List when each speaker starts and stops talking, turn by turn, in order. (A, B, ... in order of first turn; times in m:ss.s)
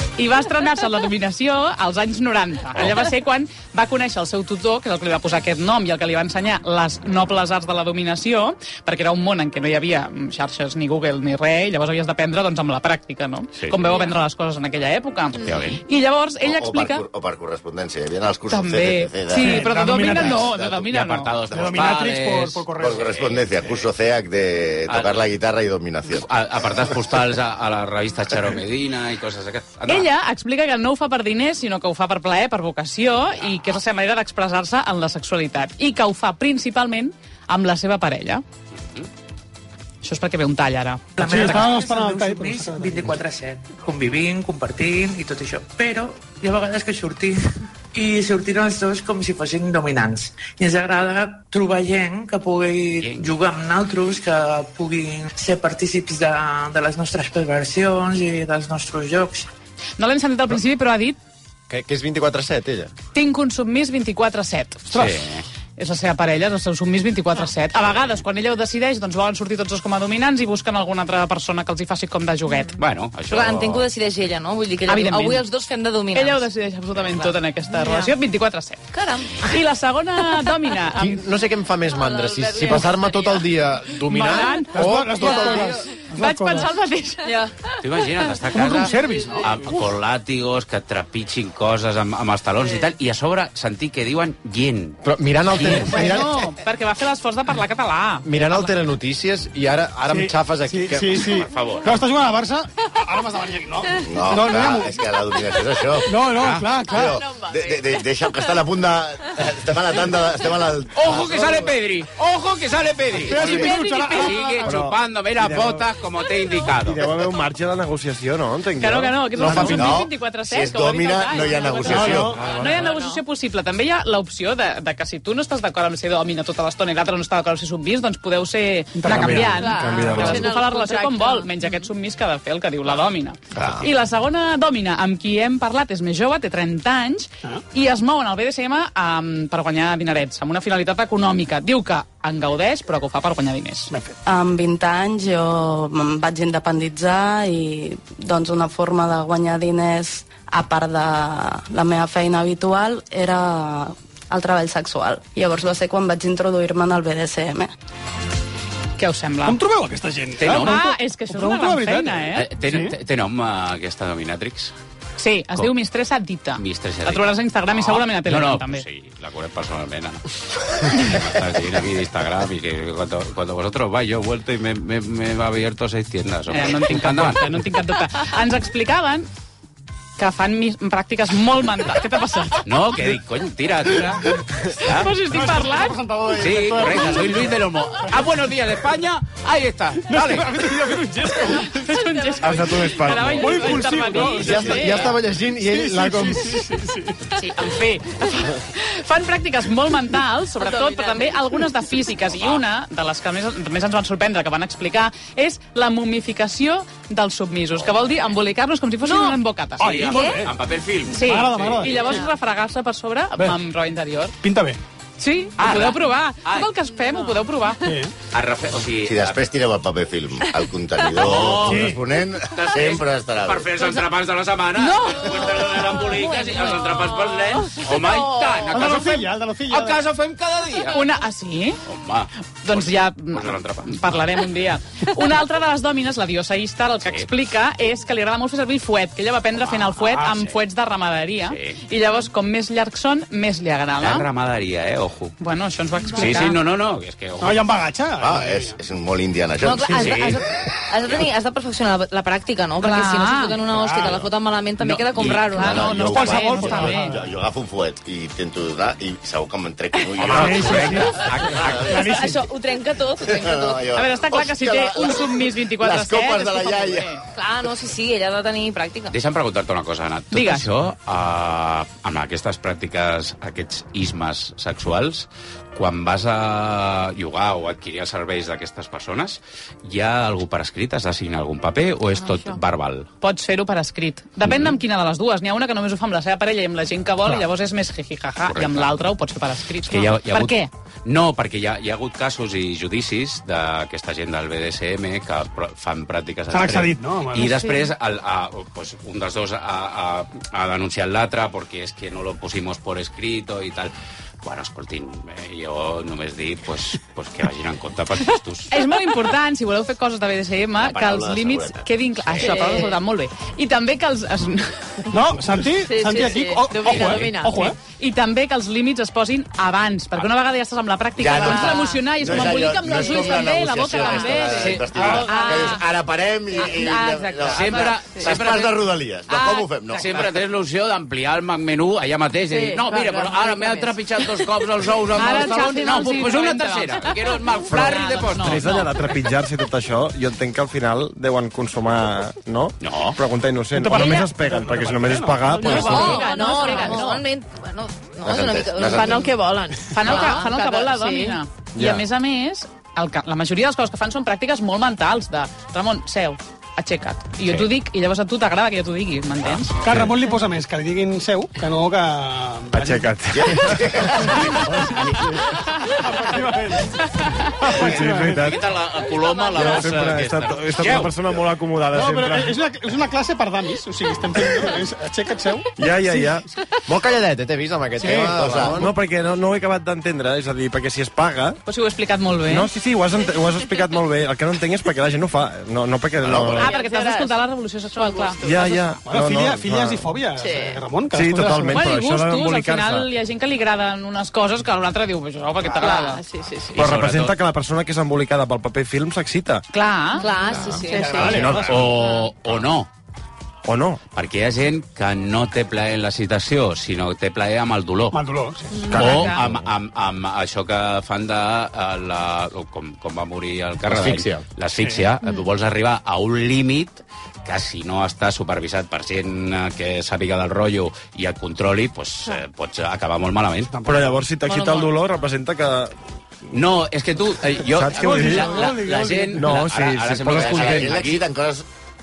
0:00.2-0:17.0 A
0:02.7-0:03.0 B
0:13.6-0:13.9 B
0:15.4-0:15.8 B
0:16.4-0:19.9 C
0:18.5-0:21.3 A
0:19.4-0:20.5 D
0:20.0-0:23.4 B
0:21.5-0:23.1 D
0:22.8-0:26.2 C
0:24.9-0:25.1 B
0:26.2-0:30.1 B
0:29.9-0:38.4 A
0:40.0-0:41.2 A
0:41.2-0:43.2 D
0:41.2-0:59.5 E
0:53.0-0:53.3 B
1:00.0-1:01.2 A
1:01.7-1:02.9 F
1:03.1-1:04.9 A
1:04.9-1:05.4 B
1:05.8-1:12.8 A
1:12.8-1:13.9 B
1:13.3-1:16.5 G
1:14.8-1:15.4 A
1:16.1-1:18.8 A
1:17.0-1:18.1 G
1:18.9-1:19.6 G
1:19.4-1:21.2 A
1:20.9-1:25.3 F
1:22.0-1:22.5 H
1:22.1-1:23.4 G
1:24.0-1:27.3 A
1:24.7-1:26.8 D
1:25.2-1:25.9 G
1:27.2-1:27.5 G
1:27.8-1:35.0 B
1:28.5-1:29.8 D
1:35.0-1:36.4 F
1:35.6-1:38.7 A
1:38.2-1:41.3 F
1:40.1-1:45.0 D
1:41.2-1:42.0 B
1:44.0-1:46.1 C
1:46.0-1:47.3 D
1:46.4-1:46.7 B
1:46.8-1:51.7 C
1:47.0-1:47.8 H
1:50.9-1:57.0 B
1:53.1-1:54.7 D
1:53.4-1:54.6 A
1:54.6-1:55.8 I
1:56.7-2:00.0 I
1:58.8-2:23.9 A
1:59.4-2:02.4 C
2:01.9-2:02.4 D
2:02.0-2:02.8 I
2:02.6-2:03.2 H
2:09.0-2:09.7 D
2:09.0-2:10.5 I
2:09.4-2:11.8 H
2:13.6-2:13.9 C
2:24.2-2:37.7 J
2:39.0-2:39.6 A
2:39.4-2:43.0 D
2:40.4-2:40.8 B
2:40.5-2:42.5 A
2:42.3-2:44.7 B
2:45.2-2:48.8 A
2:46.6-2:50.2 B
2:50.8-2:57.4 B
2:56.5-2:59.3 A
3:00.2-3:02.6 A
3:02.6-3:05.2 B
3:04.8-3:06.0 A
3:05.3-3:07.6 D
3:06.3-3:10.6 B
3:10.1-3:12.0 D
3:11.7-3:15.1 A
3:12.1-3:12.4 H
3:12.4-3:13.4 F
3:12.5-3:13.8 I
3:13.1-3:15.1 D
3:14.3-3:16.6 F
3:15.6-3:17.3 D
3:17.4-3:29.8 A
3:20.6-3:21.6 H
3:29.0-3:29.4 G
3:29.8-3:30.6 D
3:29.8-3:32.0 B
3:31.1-3:34.3 A
3:31.2-3:32.3 D
3:34.4-3:34.8 D
3:35.2-3:37.8 A
3:35.6-3:36.7 B
3:37.0-3:37.4 H
3:37.8-3:38.1 D
3:38.3-3:39.4 B
3:39.0-3:43.7 C
3:41.2-3:51.0 B
3:41.4-3:42.0 D
3:44.8-3:46.0 A
3:48.7-3:50.0 D
3:50.9-3:51.8 A
3:51.8-3:54.2 B
3:52.6-4:04.2 A
3:59.5-4:00.5 B
4:01.4-4:01.8 B
4:04.0-4:05.3 B
4:05.4-4:06.6 A
4:06.1-4:07.7 B
4:07.4-4:08.8 D
4:08.2-4:10.3 C
4:09.6-4:17.0 G
4:09.9-4:10.3 B
4:12.8-4:13.7 A
4:14.8-4:16.1 B
4:15.4-4:17.2 A
4:15.6-4:21.0 C
4:16.4-4:17.1 D
4:20.2-4:21.8 B
4:20.2-4:22.4 D
4:21.6-4:22.1 C
4:21.9-4:23.9 G
4:23.2-4:27.1 C
4:23.9-4:27.2 A
4:27.4-4:29.1 G
4:29.1-4:43.1 B
4:30.3-4:30.7 A
4:42.2-4:42.6 H
4:43.2-4:50.7 A
4:44.4-4:44.8 B
4:48.5-4:49.1 B
4:49.9-5:03.9 B
4:56.5-4:57.6 D
5:04.4-5:08.7 B
5:08.7-5:15.0 A
5:10.8-5:11.8 C
5:12.4-5:12.9 H
5:15.1-5:17.8 D
5:15.8-5:17.7 H
5:18.0-5:25.8 A
5:21.2-5:30.3 C
5:21.3-5:23.4 H
5:24.0-5:24.6 H
5:24.6-5:25.3 B
5:25.2-5:25.7 H
5:26.7-5:28.2 H
5:27.4-5:28.8 B
5:29.9-5:38.9 B
5:32.5-5:34.3 H
5:35.2-5:38.8 A
5:37.7-5:46.3 I
5:42.8-5:43.2 B
5:43.7-5:45.8 D
5:43.9-5:44.3 A
5:45.5-5:47.2 A
5:45.6-5:49.2 G
5:45.6-5:47.1 H
5:48.2-5:49.3 C
5:48.8-5:51.4 H
5:49.9-5:59.7 A
5:50.1-5:50.4 G
5:51.8-5:52.0 I
5:57.4-5:57.7 B
5:59.4-6:00.0 B
5:59.8-6:03.1 D
6:02.7-6:05.5 I
6:03.4-6:05.1 C
6:04.2-6:05.1 D
6:05.9-6:07.1 D
6:07.6-6:08.5 D
6:07.6-6:08.6 I
6:07.8-6:11.4 B
6:09.6-6:12.6 I
6:11.9-6:16.4 D
6:15.8-6:16.4 I
6:16.9-6:18.9 F
6:18.0-6:18.4 D
6:18.0-6:21.6 I
6:18.2-6:18.8 C
6:21.7-6:22.7 A
6:22.4-6:26.7 I
6:26.3-6:26.6 C
6:26.6-6:27.3 H
6:26.6-6:28.8 A
6:27.9-6:28.8 H
6:28.4-6:30.1 I
6:29.0-6:31.7 D
6:30.4-6:30.8 H
6:31.1-6:33.1 I
6:31.6-6:36.2 A
6:35.6-6:36.9 H
6:36.7-6:37.3 B
6:36.8-6:39.6 I
6:39.7-6:40.3 A
6:40.1-6:42.3 H
6:40.2-6:41.4 G
6:40.8-6:41.9 D
6:41.2-6:41.7 I
6:41.4-6:42.9 B
6:43.6-6:44.0 I
6:44.1-6:48.2 B
6:48.1-6:49.0 D
6:48.7-6:49.4 H
6:48.9-6:49.6 I
6:48.9-7:03.7 B
6:53.8-6:54.4 F
6:54.8-6:55.1 D
7:03.8-7:04.2 D
7:03.8-7:05.9 I
7:06.5-7:11.2 B
7:07.7-7:08.7 I
7:07.9-7:09.5 D
7:09.3-7:11.0 I
7:10.3-7:11.6 C